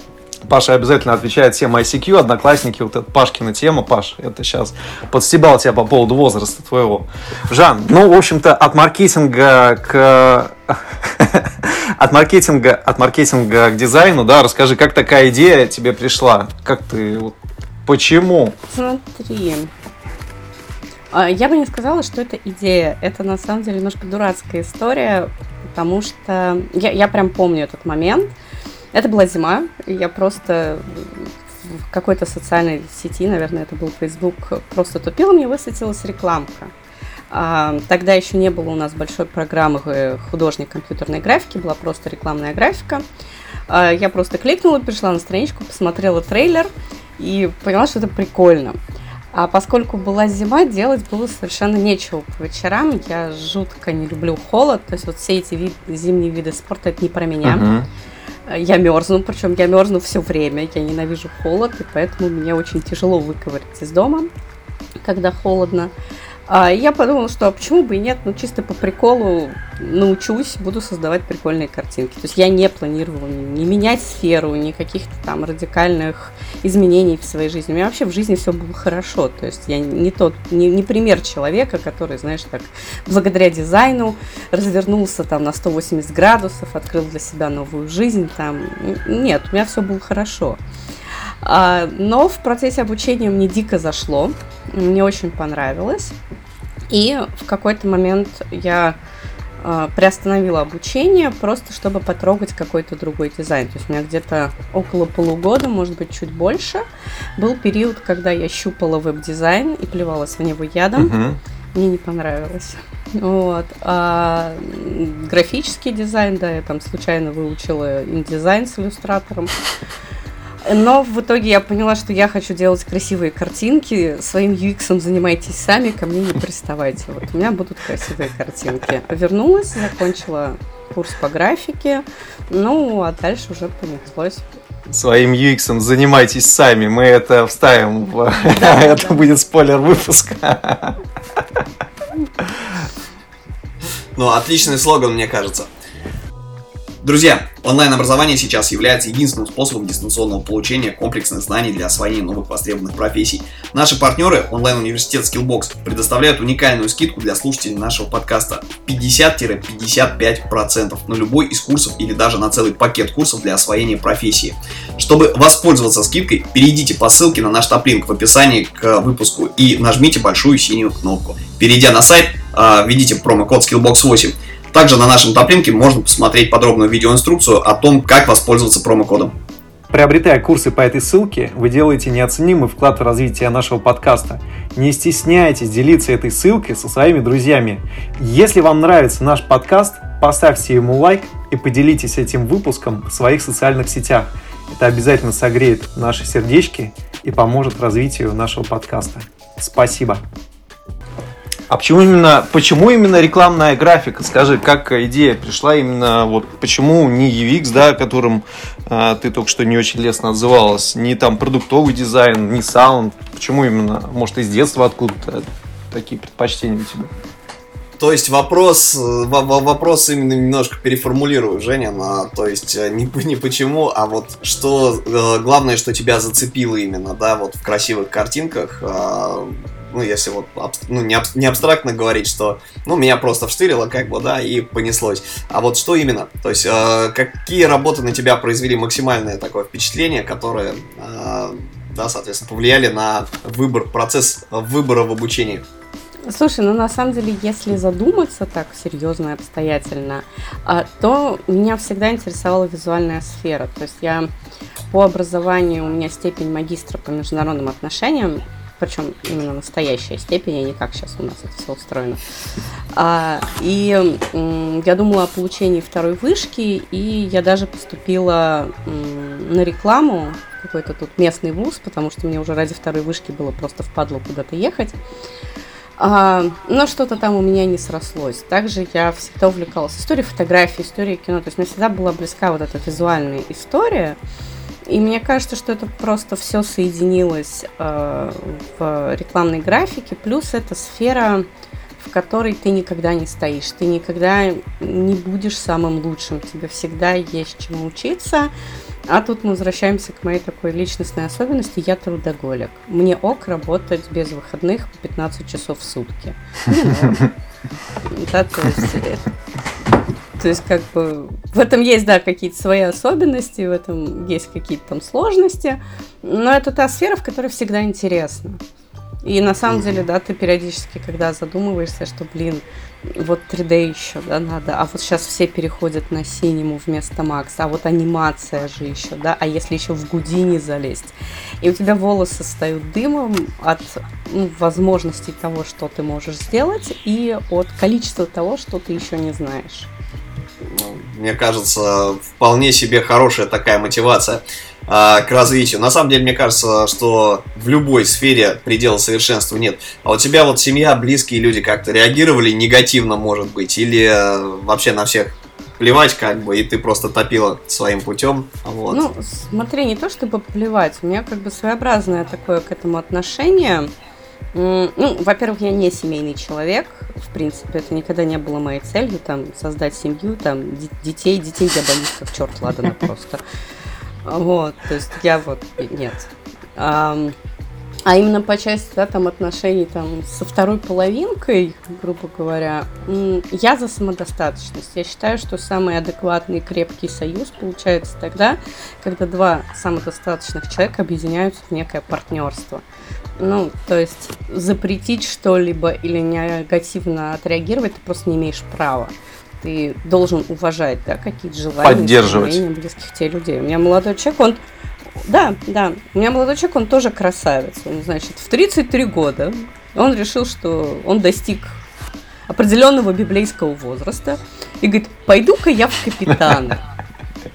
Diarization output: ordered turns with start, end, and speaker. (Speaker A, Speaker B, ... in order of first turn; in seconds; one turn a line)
Speaker A: 0.5-18.5
Speaker B: 18.7-19.7
Speaker B: 21.1-28.3
Speaker B: 28.9-36.7
Speaker B: 37.3-43.0
Speaker B: 43.7-48.8
Speaker B: 49.3-57.7
Speaker A: 57.4-57.9
Speaker B: 58.5-64.3
Speaker B: 65.0-65.9
Speaker B: 66.5-90.6
Speaker B: 91.4-96.2
Speaker B: 96.9-99.0
Speaker B: 99.6-106.8
Speaker B: 107.4-111.1
Speaker A: 111.0-111.4
Speaker B: 111.7-119.5
Speaker B: 120.7-134.4
Speaker A: 134.9-141.6
Speaker B: 138.4-139.2
Speaker A: 142.4-142.7
Speaker C: 144.2-145.7
Speaker C: 147.0-179.3
Speaker A: 179.9-200.2
Speaker A: 201.7-217.1
Speaker C: 218.0-245.6
Speaker B: 246.2-254.3
Speaker B: 254.9-262.2
Speaker B: 262.9-275.0
Speaker B: 276.0-284.2
Speaker B: 284.9-291.5
Speaker B: 292.0-298.5
Speaker B: 299.1-307.3
Speaker B: 308.1-309.2
Speaker B: 310.4-318.6
Speaker B: 319.2-339.9
Speaker C: 319.7-320.1
Speaker C: 340.6-359.0
Speaker B: 358.9-363.9
Speaker B: 364.5-373.4
Speaker B: 374.2-377.3
Speaker B: 378.1-392.8
Speaker B: 393.4-404.6
Speaker A: 401.8-402.6
Speaker B: 405.2-411.8
Speaker B: 412.5-416.8